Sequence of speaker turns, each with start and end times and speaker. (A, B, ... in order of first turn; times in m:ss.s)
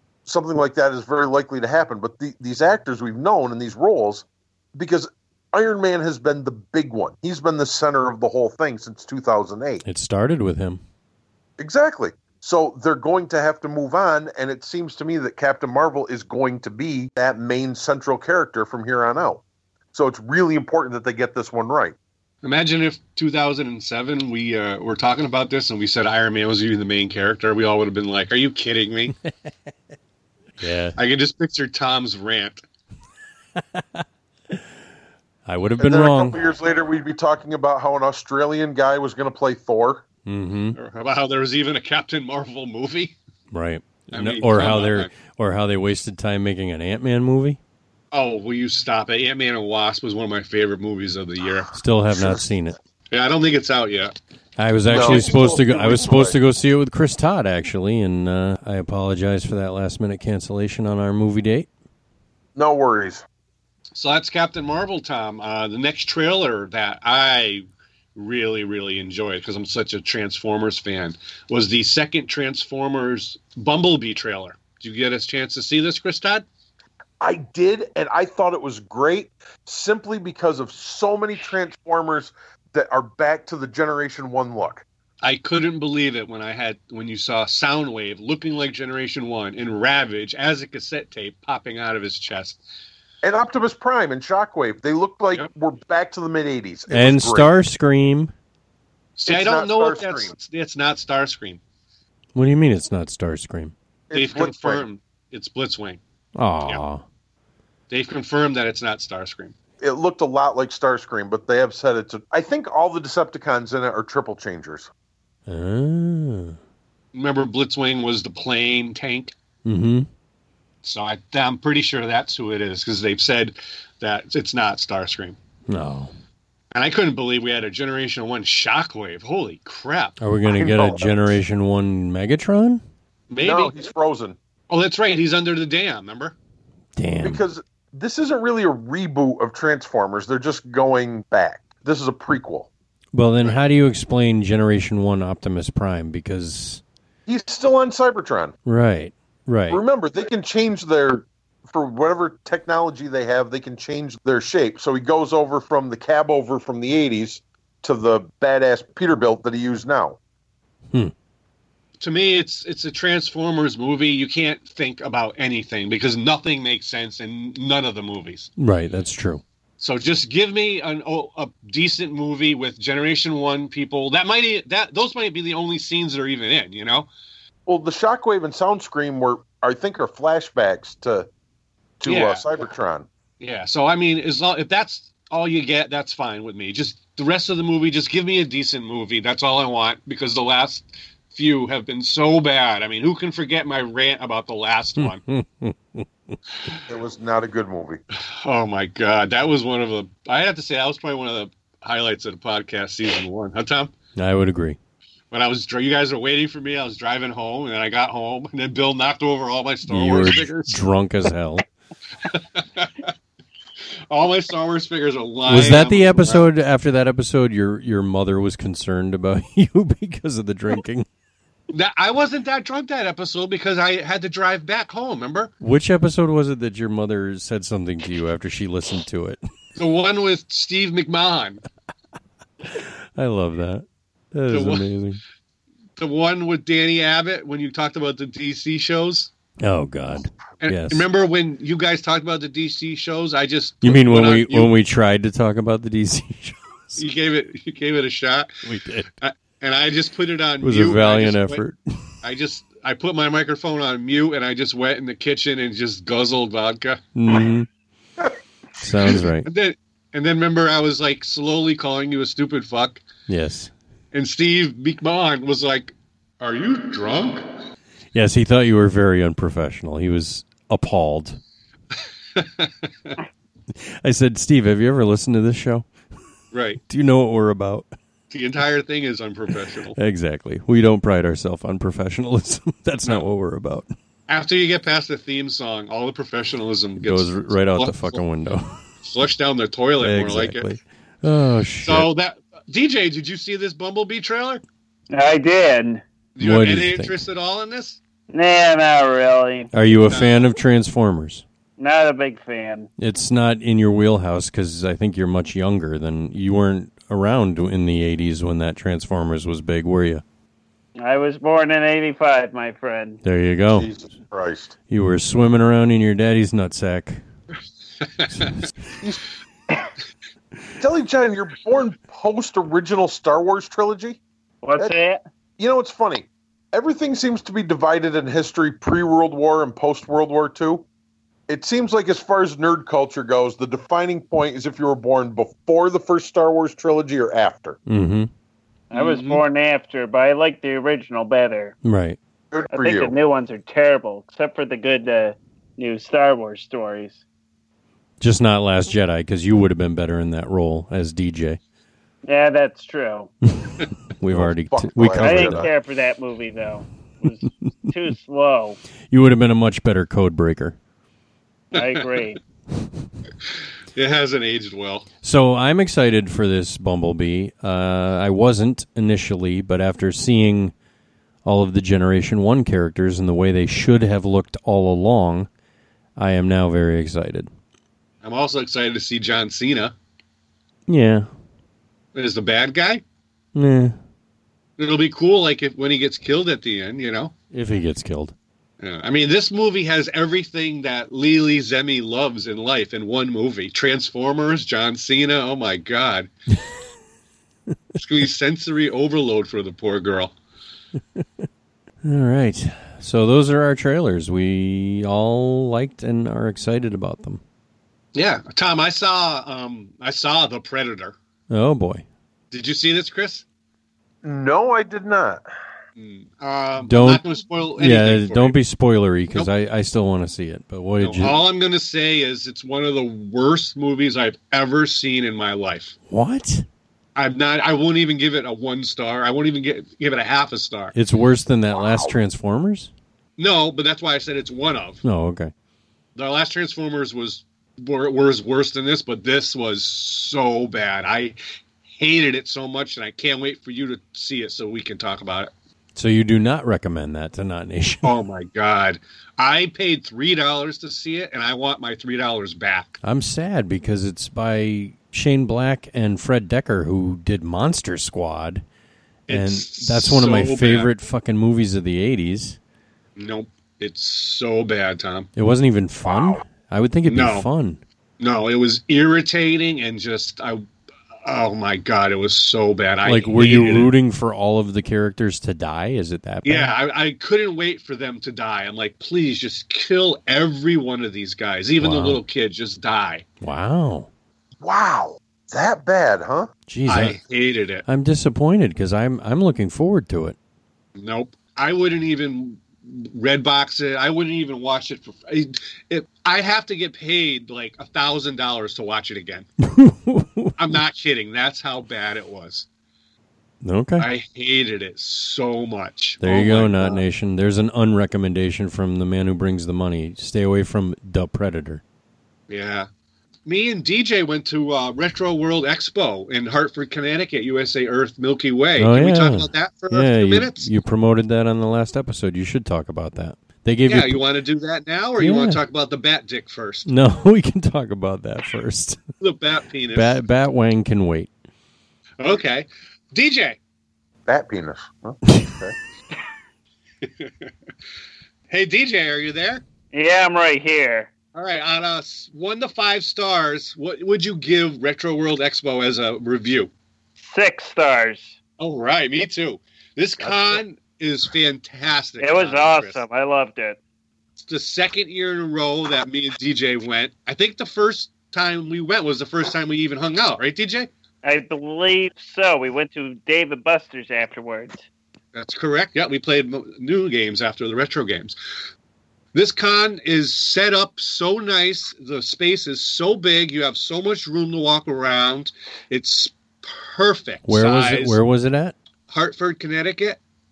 0:00.2-0:09.8 A
0:09.8-0:10.8 B
0:11.6-0:19.4 A
0:19.9-0:21.9 A
0:22.4-0:29.1 C
0:30.6-0:31.0 B
0:31.0-0:32.6 C
0:33.6-0:34.0 B
0:35.4-0:36.4 B
0:35.8-0:40.0 A
0:40.2-0:40.8 B
0:40.8-0:43.1 C
0:43.5-0:47.6 B
0:44.1-0:45.1 C
0:48.1-0:51.7 C
0:51.7-0:52.8 B
0:52.1-0:52.5 A
0:53.1-0:54.1 C
0:54.6-1:01.7 B
0:54.9-0:56.4 A
0:54.9-0:55.3 C
1:02.6-1:03.2 A
1:03.9-1:16.4 C
1:17.2-1:24.8 A
1:25.2-1:32.6 C
1:33.2-1:37.5 A
1:36.9-1:38.3 B
1:39.2-1:41.6 C
1:39.3-1:40.3 A
1:42.3-1:43.7 B
1:44.1-1:44.8 A
1:44.1-1:46.0 C
1:46.4-1:47.0 B
1:47.9-1:49.5 C
1:49.8-1:54.9 A
1:55.5-1:56.6 B
1:57.1-1:59.3 C
1:59.6-2:00.1 B
2:00.8-2:05.4 C
2:05.7-2:06.1 B
2:06.7-2:10.2 C
2:10.2-2:12.8 B
2:10.5-2:11.2 A
2:13.3-2:13.7 C
2:13.4-2:14.4 A
2:14.7-2:16.3 C
2:17.0-2:17.4 B
2:17.2-2:22.7 A
2:23.1-2:26.8 B
2:27.3-2:28.5 A
2:28.6-2:29.8 B
2:29.7-2:40.2 A
2:42.0-2:48.5 C
2:48.6-2:49.4 B
2:49.8-2:57.1 C
2:57.7-3:01.3 A
3:02.0-3:03.1 A
3:02.0-3:02.4 C
3:03.4-3:15.2 C
3:15.0-3:16.4 B
3:16.9-3:18.0 A
3:18.4-3:23.9 C
3:24.2-3:24.8 B
3:25.3-3:30.8 C
3:29.9-3:31.6 B
3:32.2-3:33.1 C
3:34.1-3:36.4 C
3:35.4-3:41.1 B
3:41.7-3:45.5 C
3:45.6-3:49.4 B
3:49.8-3:51.6 C
3:52.8-3:55.2 B
3:54.5-3:54.8 C
3:56.0-3:59.3 C
3:59.6-4:01.0 B
4:00.6-4:04.7 C
4:03.8-4:07.0 B
4:07.0-4:08.5 C
4:08.6-4:09.1 B
4:09.2-4:11.6 C
4:10.6-4:12.1 B
4:12.2-4:17.0 C
4:17.2-4:17.7 B
4:18.8-4:19.5 B
4:19.1-4:23.0 C
4:23.3-4:23.7 B
4:24.1-4:27.4 C
4:28.1-4:31.4 B
4:32.4-4:33.2 C
4:33.8-4:35.9 B
4:36.5-4:36.8 C
4:36.9-4:37.9 B
4:38.3-4:40.0 C
4:40.0-4:43.9 B
4:44.3-4:48.2 C
4:47.0-4:48.8 B
4:49.0-4:50.7 C
4:50.0-4:52.1 B
4:51.8-4:54.6 C
4:55.1-4:56.0 D
4:56.4-4:58.0 C
4:56.4-4:57.2 B
4:58.3-4:59.7 D
4:59.7-5:01.4 B
5:00.0-5:00.5 C
5:01.8-5:02.9 D
5:03.0-5:10.2 B
5:11.0-5:13.2 D
5:13.2-5:13.9 B
5:13.7-5:14.7 A
5:14.9-5:17.2 B
5:18.3-5:18.6 B
5:20.8-5:24.2 A
5:24.6-5:25.2 D
5:25.6-5:30.8 A
5:31.5-5:37.8 A
5:37.9-5:38.3 B
5:38.9-5:41.7 D
5:38.9-5:39.4 C
5:41.8-5:42.2 B
5:42.5-5:43.2 A
5:42.7-5:47.2 D
5:48.2-5:51.6 B
5:52.2-5:53.3 D
5:53.7-5:55.6 B
5:54.3-5:55.7 A
5:55.2-5:58.8 D
5:59.1-6:00.8 B
6:01.7-6:02.4 D
6:03.9-6:05.1 C
6:05.2-6:10.7 B
6:11.4-6:15.5 B
6:16.2-6:17.5 B
6:18.2-6:19.9 C
6:20.9-6:21.3 B
6:22.1-6:23.0 C
6:23.5-6:24.0 B
6:24.8-6:27.3 C
6:27.5-6:28.3 B
6:28.8-6:36.3 C
6:37.9-6:40.3 C
6:42.0-6:47.4 B
6:48.1-6:51.2 C
6:51.5-6:52.0 B
6:52.5-6:53.4 C
6:54.2-6:55.4 A
6:56.0-6:58.6 C
6:56.8-6:57.2 B
6:57.8-7:01.4 B
7:01.0-7:05.9 C
7:06.1-7:06.6 B
7:07.2-7:10.9 C
7:10.9-7:12.9 B
7:13.4-7:15.0 C
7:15.0-7:15.5 B
7:16.2-7:21.4 C
7:21.9-7:25.5 C
7:25.9-7:28.1 B
7:28.0-7:33.0 C
7:33.0-7:38.6 B
7:39.3-7:40.9 C
7:39.3-7:42.6 B
7:43.2-7:45.3 C
7:45.4-7:47.8 B
7:47.0-7:47.5 C
7:48.2-7:50.6 C
7:51.2-7:53.9 C
7:53.0-7:56.7 B
7:56.4-8:03.2 C
8:01.8-8:02.2 B
8:03.4-8:04.1 B
8:04.6-8:06.5 A
8:06.7-8:07.2 B
8:06.8-8:07.8 C
8:07.8-8:10.4 B
8:11.0-8:19.5 C
8:19.6-8:20.5 B
8:20.5-8:22.6 C
8:23.6-8:24.1 B
8:24.0-8:27.0 C
8:26.2-8:31.8 B
8:32.5-8:32.9 C
8:33.4-8:40.7 C
8:38.8-8:44.2 B
8:43.9-8:46.9 C
8:45.2-8:45.6 B
8:46.8-8:49.0 B
8:49.2-8:50.2 C
8:49.9-8:51.3 B
8:52.2-8:53.6 C
8:54.3-8:55.7 A
8:57.0-8:57.5 C
8:58.5-8:59.6 C
8:59.9-9:01.1 D
9:01.3-9:06.7 C
9:07.2-9:08.4 D
9:08.6-9:13.0 C
9:12.2-9:13.8 D
9:14.5-9:20.9 C
9:21.2-9:24.8 D
9:25.3-9:28.4 C
9:29.3-9:38.2 C
9:37.5-9:38.7 B
9:39.1-9:40.2 C